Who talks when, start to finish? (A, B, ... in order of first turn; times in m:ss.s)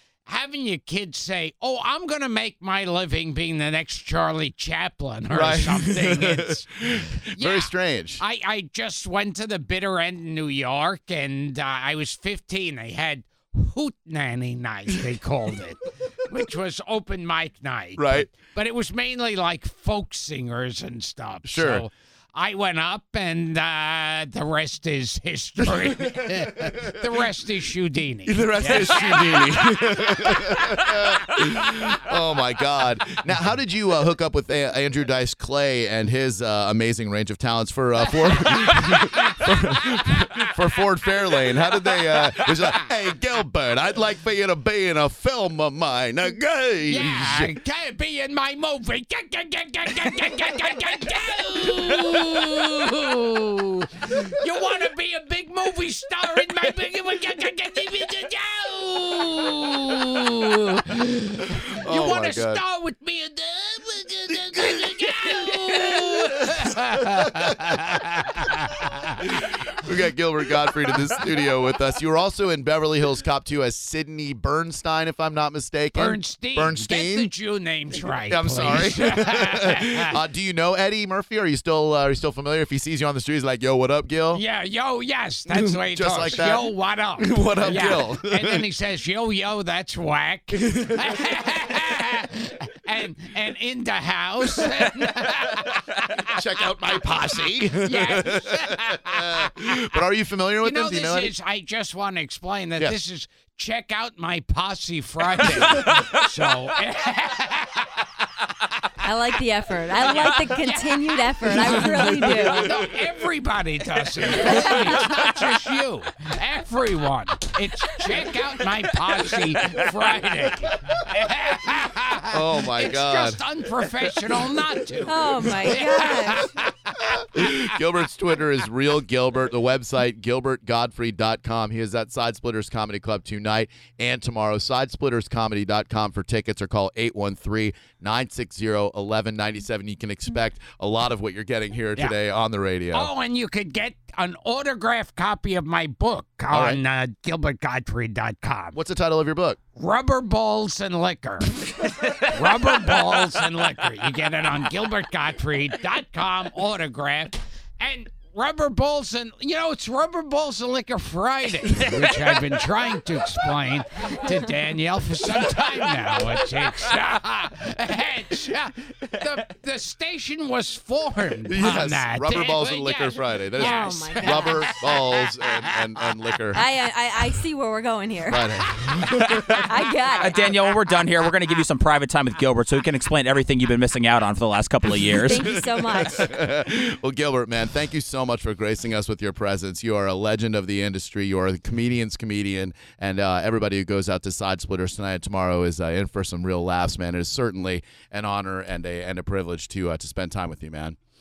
0:00.3-0:06.7 A
0:05.3-0:08.2 B
0:07.4-0:30.8 A
0:18.0-0:18.3 B
0:21.4-0:21.9 B
0:25.6-0:27.1 B
0:28.2-0:47.5 B
0:38.3-0:39.1 A
0:39.9-0:40.3 A
0:46.9-1:09.2 A
1:01.8-1:02.6 B
1:04.6-1:06.4 B
1:09.3-1:17.3 B
1:15.9-1:20.2 A
1:18.0-1:24.4 B
1:24.3-1:36.3 A
1:25.5-1:28.6 B
1:36.3-1:41.3 B
1:37.8-1:39.5 A
1:40.6-1:48.0 A
1:49.0-1:52.8 C
1:49.9-2:07.6 A
1:52.1-1:52.7 B
1:54.4-1:55.0 C
2:02.3-2:03.4 B
2:05.1-2:06.5 C
2:05.4-2:05.8 B
2:07.3-2:23.1 B
2:22.9-2:28.8 A
2:26.5-2:26.8 B
2:28.7-2:29.6 B
2:29.8-2:55.9 A
2:51.5-2:56.6 B
2:53.6-2:54.7 C
2:56.5-2:58.6 C
2:58.3-2:59.6 B
2:59.5-3:00.6 C
3:00.2-3:05.5 D
3:05.1-3:06.3 C
3:05.3-3:21.0 B